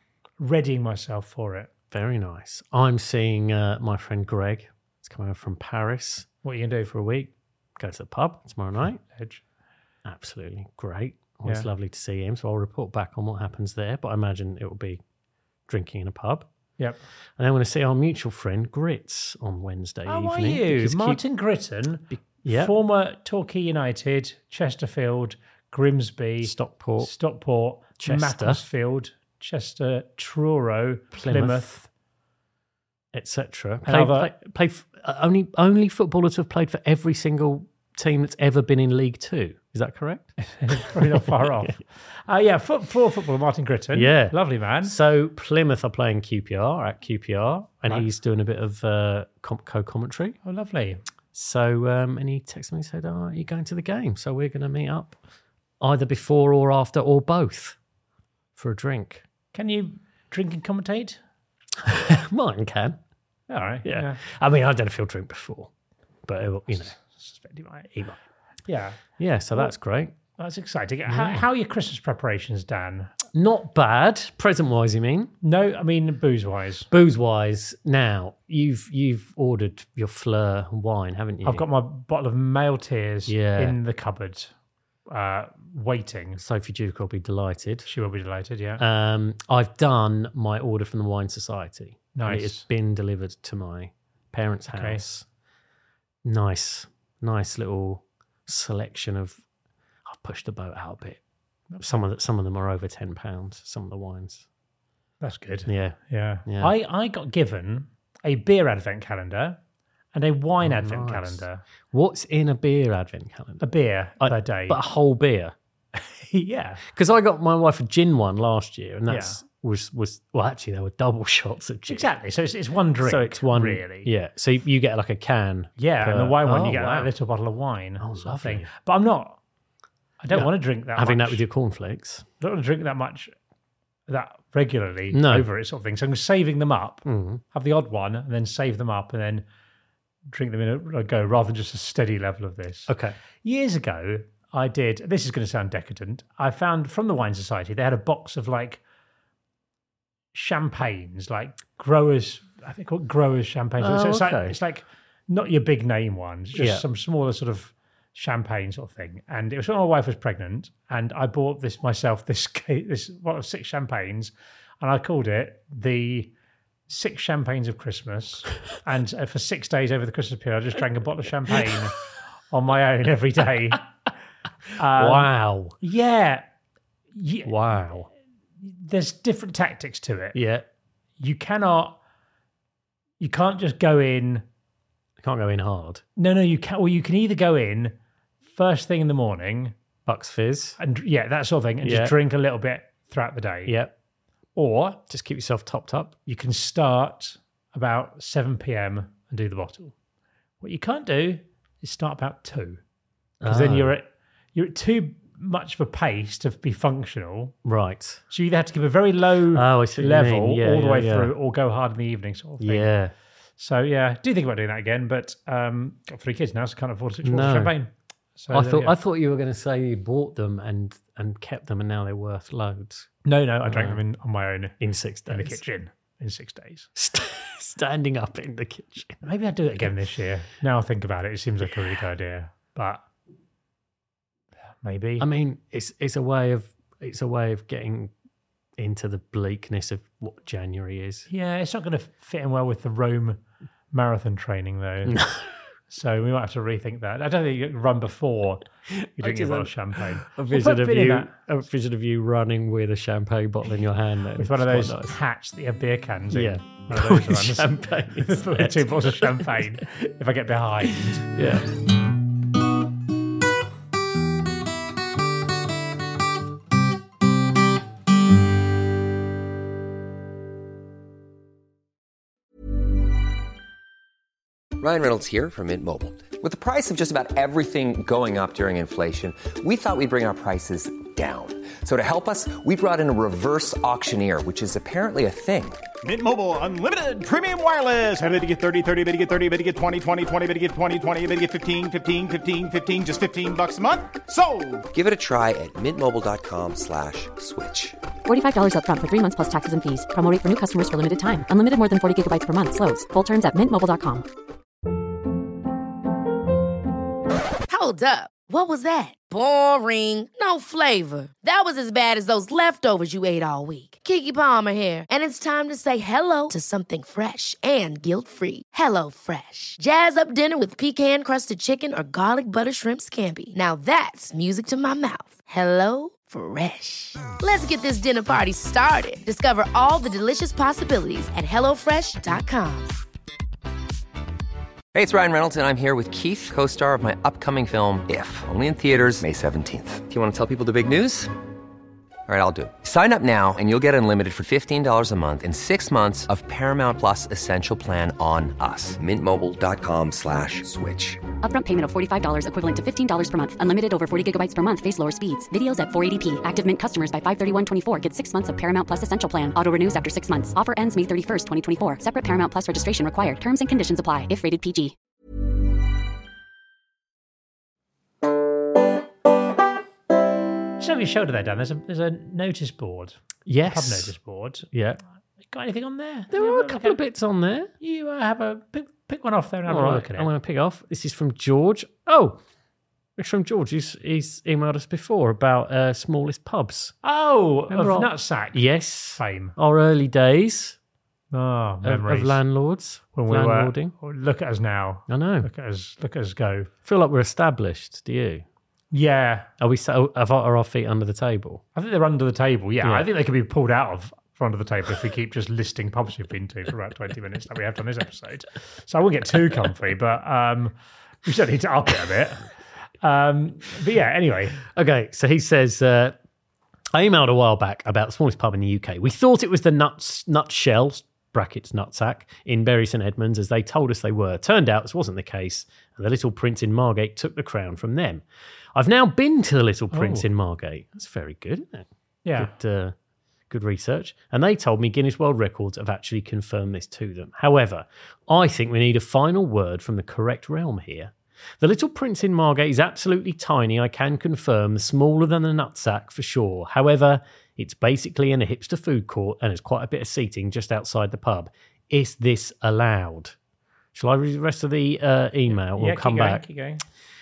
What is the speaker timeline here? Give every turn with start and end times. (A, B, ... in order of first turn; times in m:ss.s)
0:00.4-0:01.7 A
0:01.9-0:06.3 B
0:06.4-0:06.9 A
0:06.9-0:09.0 B
0:09.1-0:09.4 A
0:10.0-0:15.0 B
0:15.7-0:16.5 B
0:17.4-0:21.2 B
0:20.1-0:31.9 A
0:22.2-0:22.7 B
0:26.4-0:27.1 B
0:28.0-0:28.6 B
0:31.1-0:31.7 B
0:33.1-0:41.7 B
0:33.8-0:34.3 A
0:40.4-0:45.0 A
0:43.9-0:50.4 B
0:50.4-0:51.0 A
0:51.3-0:55.2 B
0:55.8-0:57.8 B
0:58.6-0:59.2 B
0:59.5-1:01.2 A
1:01.8-1:03.0 B
1:03.5-1:04.2 A
1:03.8-1:05.7 B
1:06.2-1:06.9 B
1:06.7-1:08.0 A
1:08.7-1:09.7 A
1:09.2-1:10.2 B
1:10.4-1:13.1 A
1:11.0-1:11.4 B
1:13.3-1:15.3 B
1:15.4-1:16.9 A
1:16.9-1:21.6 B
1:21.4-1:24.5 A
1:23.2-1:23.8 B
1:25.1-1:26.4 A
1:26.4-1:27.9 B
1:27.9-1:28.8 A
1:28.8-1:35.2 B
1:32.1-1:32.6 A
1:34.7-1:35.0 A
1:36.2-1:39.4 B
1:40.0-1:41.2 B
1:41.8-1:44.4 B
1:45.2-1:49.6 A
1:45.6-1:46.7 B
1:50.1-1:51.6 A
1:50.6-1:53.7 B
1:53.6-1:54.8 A
1:54.2-1:55.5 B
1:55.9-1:56.8 A
1:56.9-2:02.1 B
1:59.1-1:59.4 A
2:01.9-2:04.1 A
2:03.0-2:07.1 B
2:05.8-2:09.4 A
2:08.0-2:08.7 B
2:10.2-2:11.4 A
2:10.3-2:12.2 B
2:12.4-2:13.3 A
2:14.1-2:19.4 A
2:15.1-2:15.5 B
2:17.0-2:17.4 B
2:20.3-2:22.9 A
2:22.9-2:23.2 B
2:23.4-2:28.8 A
2:30.3-2:46.3 A
2:33.8-2:34.6 B
2:36.5-2:36.8 B
2:46.9-2:53.9 A
2:54.7-2:56.4 A
2:54.9-2:55.8 B
2:57.1-2:57.5 A
2:57.4-2:58.1 B
2:58.6-3:00.4 A
3:00.3-3:00.6 B
3:01.2-3:02.0 A
3:03.2-3:04.4 A
3:05.2-3:06.0 B
3:06.2-3:07.9 A
3:08.5-3:09.7 A
3:10.1-3:10.8 B
3:10.8-3:13.8 A
3:11.8-3:12.1 B
3:13.6-3:13.9 B
3:14.6-3:15.0 A
3:15.1-3:16.2 B
3:16.3-3:19.9 A
3:20.6-3:22.8 A
3:23.4-3:23.9 B
3:23.4-3:27.6 A
3:27.6-3:28.2 B
3:28.3-3:32.9 A
3:29.5-3:31.3 B
3:32.6-3:33.1 B
3:33.6-3:38.9 A
3:37.2-3:37.7 B
3:38.5-3:43.1 B
3:43.2-3:44.8 A
3:43.6-3:44.0 B
3:44.8-3:45.6 B
3:45.3-3:46.9 A
3:47.0-3:49.2 B
3:49.2-3:53.0 A
3:54.8-3:55.3 A
3:55.2-3:58.1 B
3:58.8-4:01.3 B
4:01.3-4:03.4 A
4:03.9-4:05.2 A
4:05.1-4:05.4 B
4:05.9-4:11.3 A
4:08.9-4:15.2 B
4:14.4-4:21.3 A
4:16.3-4:19.8 B
4:20.9-4:21.7 B
4:34.8-4:45.8 C
4:46.0-4:54.9 D
4:54.9-4:58.0 C
4:58.2-5:04.2 E
5:07.7-5:33.0 F
5:34.9-5:41.3 C
5:42.3-5:51.2 C
5:51.4-6:04.9 E
6:10.8-6:14.7 A
6:13.4-6:14.1 B
6:14.7-6:15.0 B
6:15.5-6:17.0 A
6:16.3-6:17.7 B
6:17.8-6:20.3 A
6:19.7-6:22.4 B
6:23.2-6:26.9 B
6:27.0-6:28.6 A
6:27.7-6:30.8 B
6:29.2-6:29.5 A
6:31.3-6:32.4 A
6:31.8-6:33.9 B
6:33.1-6:36.7 A
6:35.1-6:35.5 B
6:36.8-6:38.4 B
6:38.9-6:39.5 A
6:39.6-6:41.6 B
6:41.8-6:52.5 A
6:42.8-6:43.1 B
6:53.0-6:54.6 A
6:54.6-6:56.2 B
6:56.9-7:08.2 B
7:08.7-7:12.9 B
7:09.9-7:10.2 A
7:12.2-7:12.5 A
7:13.5-7:33.4 B
7:33.9-7:36.4 B
7:35.5-7:36.8 A